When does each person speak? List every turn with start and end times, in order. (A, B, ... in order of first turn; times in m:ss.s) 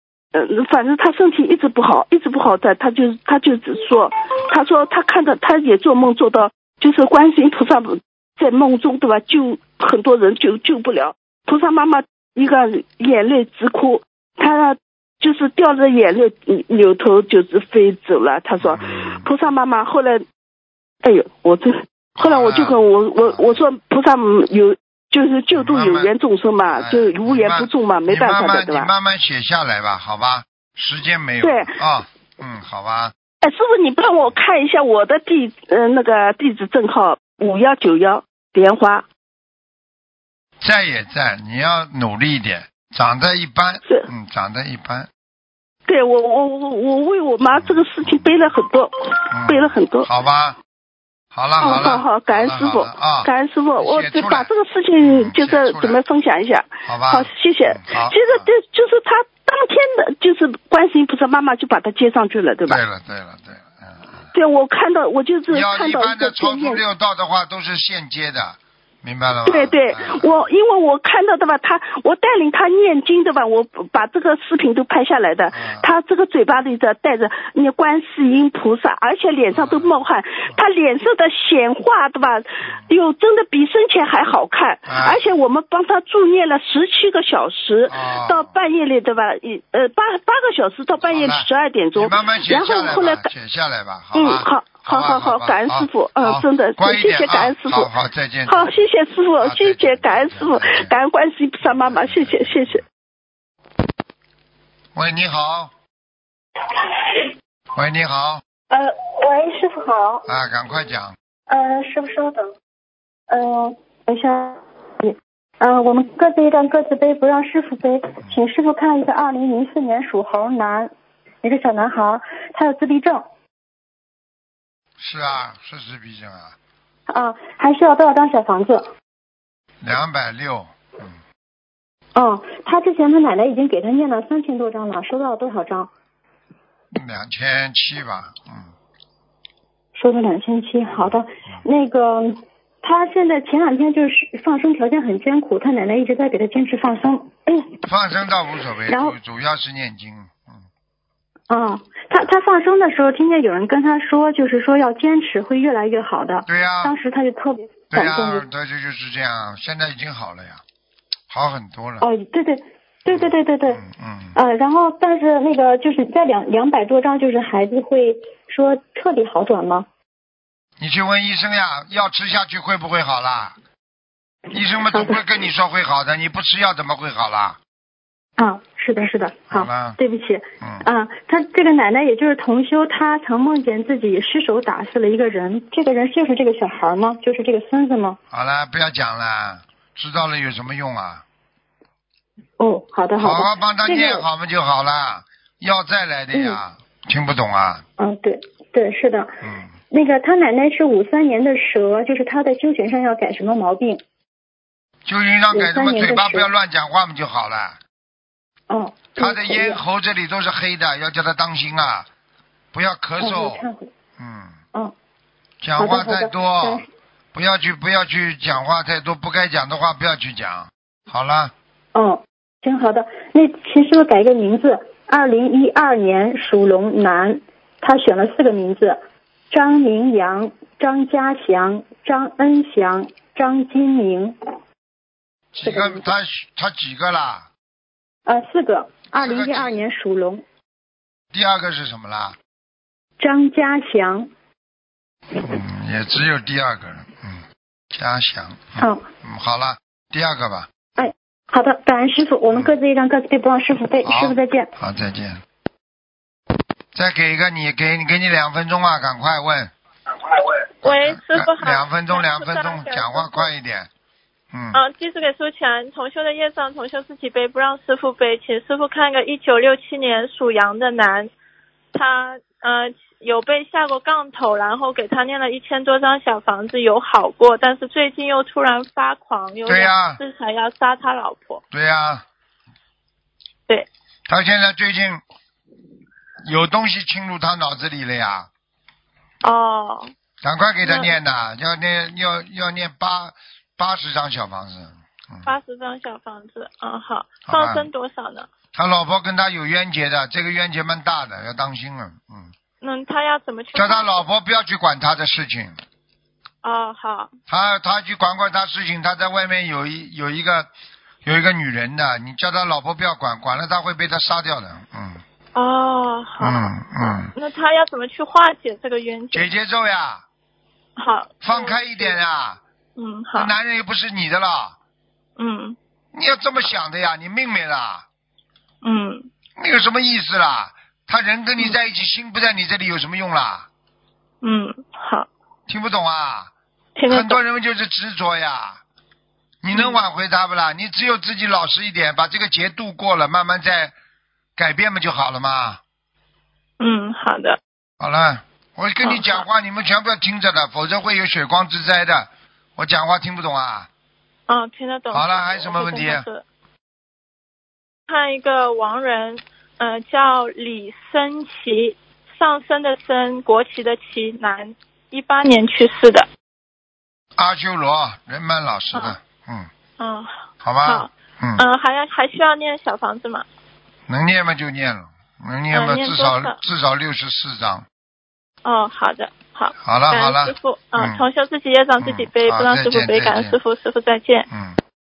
0:00.3-0:20.2 A
0:18.6-0:19.2 B
0:21.0-0:28.9 A
0:22.2-0:23.6 B
0:25.5-0:26.1 B
0:26.7-0:33.1 B
0:31.4-0:31.7 A
0:33.4-0:39.0 A
0:40.6-0:45.1 B
0:45.9-0:50.1 A
0:47.5-0:48.2 B
0:49.3-0:50.6 B
0:51.3-0:54.5 B
0:51.6-1:02.8 A
0:55.0-0:56.0 B
0:56.8-0:58.5 B
1:02.6-1:04.3 B
1:04.3-1:06.8 A
1:05.5-1:10.5 B
1:09.5-1:33.3 A
1:15.5-1:15.9 B
1:19.5-1:20.0 B
1:24.9-1:25.4 B
1:27.9-1:28.5 B
1:31.0-1:38.8 B
1:34.1-1:37.9 A
1:38.5-1:42.8 A
1:39.4-1:40.9 B
1:41.6-1:42.8 B
1:44.9-1:45.7 B
1:47.7-1:48.4 B
1:48.7-1:50.2 C
1:50.2-1:51.1 B
1:51.5-1:52.5 C
1:53.3-2:00.9 C
2:01.4-2:03.2 C
2:05.0-2:06.5 B
2:07.1-2:08.9 C
2:09.8-2:11.2 B
2:12.1-2:15.9 C
2:16.9-2:18.7 B
2:19.9-2:27.8 C
2:20.9-2:21.6 B
2:27.8-2:30.6 B
2:28.9-2:29.2 C
2:31.5-2:38.4 C
2:36.5-2:36.9 B
2:37.9-2:40.6 B
2:41.3-2:42.0 B
2:42.0-2:43.8 C
2:43.1-2:44.4 B
2:44.3-2:49.9 C
2:50.8-2:53.6 B
2:54.5-2:57.6 B
2:54.9-2:55.2 C
2:58.4-3:08.2 C
2:59.5-3:00.0 B
3:00.6-3:00.8 B
3:08.3-3:11.2 B
3:12.6-3:14.2 C
3:13.2-3:17.8 B
3:16.3-3:16.6 C
3:18.0-3:19.3 C
3:19.4-3:19.7 B
3:19.9-3:24.0 C
3:25.0-3:27.8 B
3:25.5-3:26.5 C
3:28.7-3:29.8 C
3:29.2-3:32.1 B
3:32.7-3:33.6 B
3:33.2-3:33.9 C
3:34.2-3:34.6 B
3:35.6-3:41.5 B
3:35.8-3:36.9 C
3:41.9-3:49.0 C
3:49.5-3:54.4 C
3:55.5-3:57.5 B
3:55.6-3:56.0 C
3:58.2-4:00.4 C
3:59.1-3:59.8 B
4:01.3-4:02.4 B
4:03.2-4:04.3 C
4:05.4-4:10.7 B
4:08.8-4:09.0 C
4:11.0-4:14.7 C
4:14.0-4:15.4 B
4:16.9-4:19.7 B
4:20.8-4:23.5 D
4:20.8-4:23.9 B
4:24.5-4:24.8 B
4:24.7-4:31.3 D
4:31.9-4:41.6 D
4:39.6-4:40.2 B
4:41.7-4:42.2 B
4:44.3-4:45.2 B
4:46.4-4:48.5 B
4:49.4-4:50.1 D
4:50.4-4:55.5 B
4:50.8-4:51.1 D
4:55.4-4:58.5 D
4:57.5-4:57.9 B
4:58.7-5:02.5 B
5:02.8-5:04.2 D
5:03.7-5:05.8 B
5:06.6-5:07.3 D
5:07.5-5:10.7 B
5:11.2-5:15.2 B
5:15.5-5:19.5 D
5:16.4-5:17.3 B
5:19.3-5:20.2 B
5:21.0-5:22.2 D
5:21.4-5:22.6 B
5:23.0-5:23.5 D
5:23.3-5:24.8 B
5:25.4-5:25.8 D
5:26.1-5:28.0 B
5:28.8-5:29.3 D
5:29.6-5:33.7 B
5:34.4-5:35.3 D
5:35.7-5:36.5 B
5:37.0-5:37.4 D
5:37.1-5:38.8 B
5:39.6-5:43.9 B
5:39.7-5:40.0 D
5:44.6-5:45.8 B
5:46.8-5:47.6 D
5:48.0-5:53.9 B
5:49.0-5:49.4 D
5:54.5-5:56.4 D
5:55.1-5:56.2 B
5:58.1-6:06.3 D
6:07.4-6:09.7 B
6:10.0-6:10.3 D
6:10.6-6:11.6 B
6:10.8-6:13.4 D
6:14.1-6:17.8 B
6:15.7-6:16.6 D
6:18.6-6:24.5 D
6:19.8-6:21.2 B
6:22.0-6:23.6 B
6:24.5-6:24.8 B